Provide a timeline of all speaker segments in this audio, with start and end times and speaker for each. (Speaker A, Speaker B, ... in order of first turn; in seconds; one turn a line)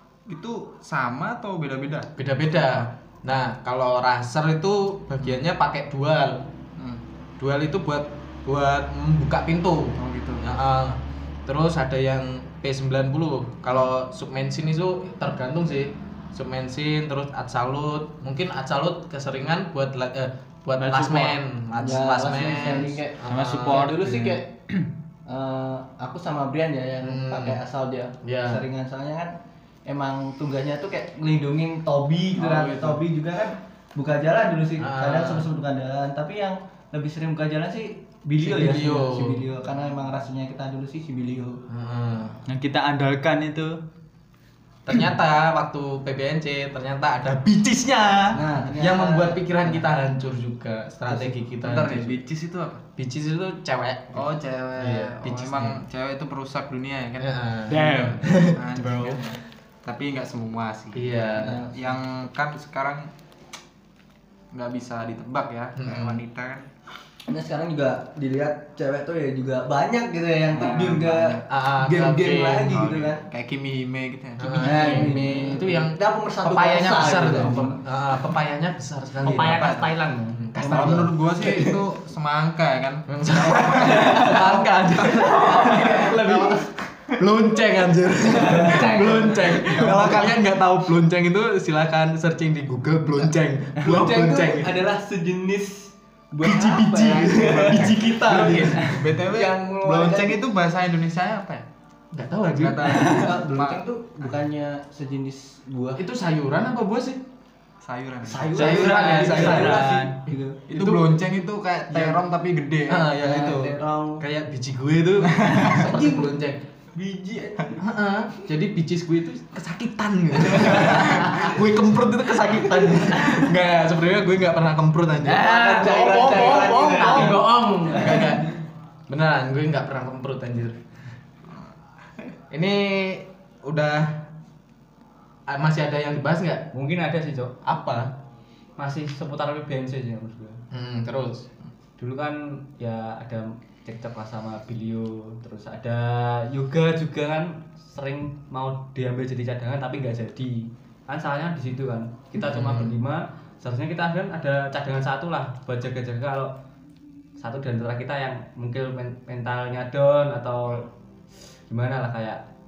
Speaker A: 0.3-2.8
Speaker B: 2.2-6.5
Speaker A: 6.8-7.0
Speaker B: 7.4-24.0
Speaker A: 10.0-10.5
Speaker C: 20.8-21.3
Speaker D: 21.8-24.5
Speaker C: 23.2-24.9
Speaker D: 25.3-29.3
Speaker B: 27.0-27.6
Speaker B: 28.2-28.6
Speaker D: 29.9-41.6
Speaker B: 32.4-33.0
Speaker B: 34.8-35.5
Speaker B: 38.4-39.5
Speaker B: 41.7-42.4
Speaker C: 42.5-43.8
Speaker B: 44.9-52.2
Speaker D: 48.3-49.8
Speaker A: 51.1-52.8
Speaker B: 53.0-55.8
Speaker A: 54.1-63.1
Speaker B: 57.2-59.2
Speaker C: 57.7-58.1
Speaker B: 61.0-61.6
Speaker D: 61.4-61.7
Speaker A: 64.5-66.7
Speaker B: 65.8-66.2
Speaker D: 67.3-73.2
Speaker A: 70.5-71.5
Speaker B: 71.5-73.0
Speaker A: 72.7-75.4
Speaker B: 74.4-81.8
Speaker D: 74.6-77.8
Speaker E: 79.2-80.4
Speaker A: 79.4-79.8
Speaker A: 80.6-86.2
Speaker B: 83.1-86.6
Speaker D: 85.2-86.7
Speaker B: 87.2-94.9
Speaker D: 88.3-89.1
Speaker E: 88.5-89.5
Speaker A: 88.9-90.9
Speaker D: 93.8-100.4
Speaker B: 96.4-98.9
Speaker A: 97.7-101.7
Speaker B: 102.1-103.3
Speaker A: 102.5-104.3
Speaker D: 103.0-106.0
Speaker B: 106.0-107.2
Speaker A: 107.8-108.9
Speaker D: 108.2-110.9
Speaker B: 108.6-109.8
Speaker C: 108.6-110.2
Speaker A: 110.7-113.1
Speaker B: 110.8-111.0
Speaker D: 111.9-112.2
Speaker B: 112.9-116.6
Speaker D: 113.2-114.2
Speaker A: 115.3-115.8
Speaker D: 115.7-116.3
Speaker D: 116.9-117.8
Speaker B: 117.8-128.5
Speaker A: 120.9-121.5
Speaker D: 125.3-128.3
Speaker E: 126.4-128.3
Speaker B: 129.1-130.8
Speaker B: 132.5-134.2
Speaker B: 135.5-136.7
Speaker E: 136.7-137.5
Speaker B: 137.6-138.1
Speaker E: 138.8-140.6
Speaker B: 140.7-141.5
Speaker E: 142.0-156.5
Speaker B: 152.4-153.0
Speaker E: 157.4-160.9
Speaker E: 161.7-162.4